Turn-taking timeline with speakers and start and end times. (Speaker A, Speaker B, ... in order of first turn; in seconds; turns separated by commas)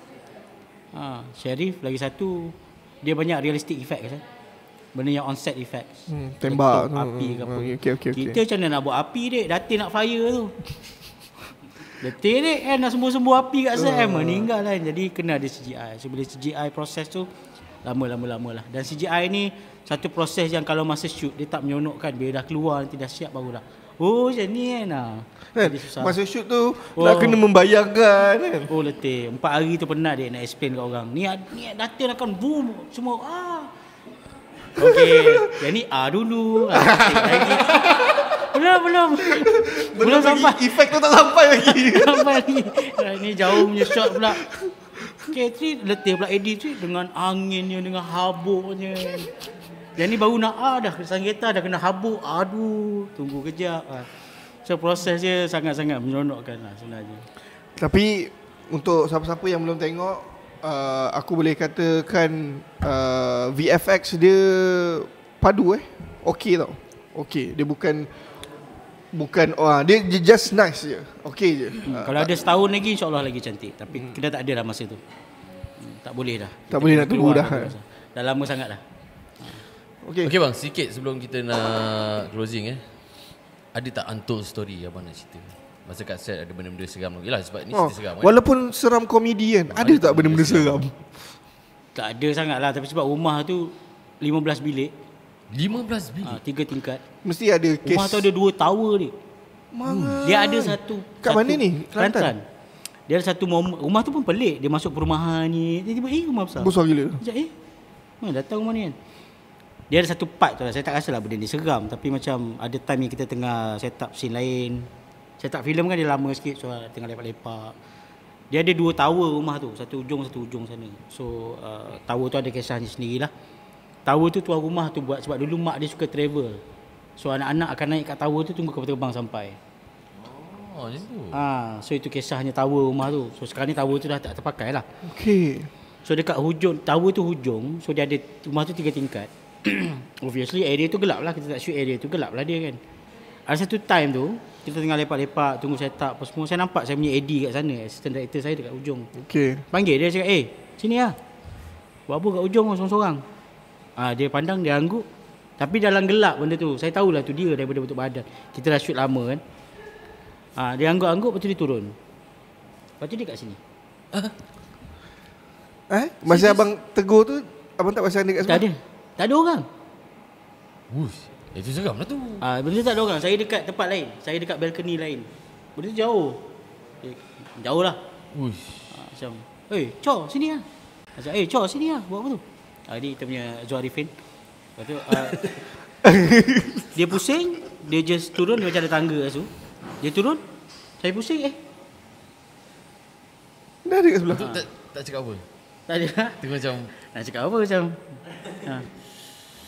Speaker A: 0.9-4.2, Speaker A: 4.9-10.6, Speaker B: 6.1-8.4, Speaker A: 12.0-17.3, Speaker B: 13.8-14.5, Speaker A: 17.8-26.2, Speaker B: 25.5-28.7, Speaker A: 26.9-27.4, Speaker A: 28.7-33.7, Speaker A: 34.8-41.0, Speaker B: 34.8-35.6, Speaker B: 36.7-38.3, Speaker B: 39.2-42.5, Speaker A: 41.5-44.5, Speaker B: 43.5-44.7, Speaker A: 45.2-49.3, Speaker A: 50.0-54.1, Speaker A: 54.6-57.3, Speaker B: 57.8-68.1, Speaker B: 69.1-72.4, Speaker A: 71.8-75.0, Speaker A: 75.8-78.8, Speaker B: 76.7-77.7, Speaker B: 80.0-80.3, Speaker C: 80.2-82.8, Speaker C: 83.7-88.3, Speaker B: 87.7-91.0, Speaker C: 89.7-90.8, Speaker A: 91.9-94.9, Speaker C: 95.5-96.4, Speaker A: 96.2-97.0, Speaker B: 97.2-98.3, Speaker A: 97.8-99.1, Speaker B: 99.7-102.3, Speaker C: 99.9-100.2, Speaker A: 100.2-102.4, Speaker A: 103.1-107.5, Speaker B: 106.6-107.2, Speaker A: 108.2-109.0, Speaker A: 109.9-117.7, Speaker A: 118.5-123.3, Speaker A: 124.0-126.6, Speaker A: 127.2-129.6, Speaker C: 130.2-131.4, Speaker A: 131.3-134.8, Speaker B: 135.0-135.7, Speaker A: 136.0-142.8, Speaker A: 143.5-149.1, Speaker B: 149.1-149.6, Speaker A: 149.7-151.2, Speaker A: 152.1-153.2, Speaker A: 154.0-155.0, Speaker A: 155.6-159.4, Speaker A: 160.6-161.9, Speaker A: 163.0-163.6, Speaker B: 165.9-168.7, Speaker A: 166.3-166.6, Speaker A: 168.4-169.7, Speaker C: 170.9-172.4, Speaker A: 172.4-176.5, Speaker A: 177.0-178.0, Speaker C: 178.3-178.9, Speaker A: 178.9-180.6, Speaker A: 181.2-184.1, Speaker A: 184.8-185.5, Speaker B: 186.0-186.8, Speaker A: 186.9-190.4, Speaker A: 191.0-191.6, Speaker B: 193.8-194.6, Speaker C: 194.3-195.4, Speaker A: 194.4-194.6, Speaker A: 195.9-196.4, Speaker C: 196.4-196.9, Speaker A: 197.0-198.9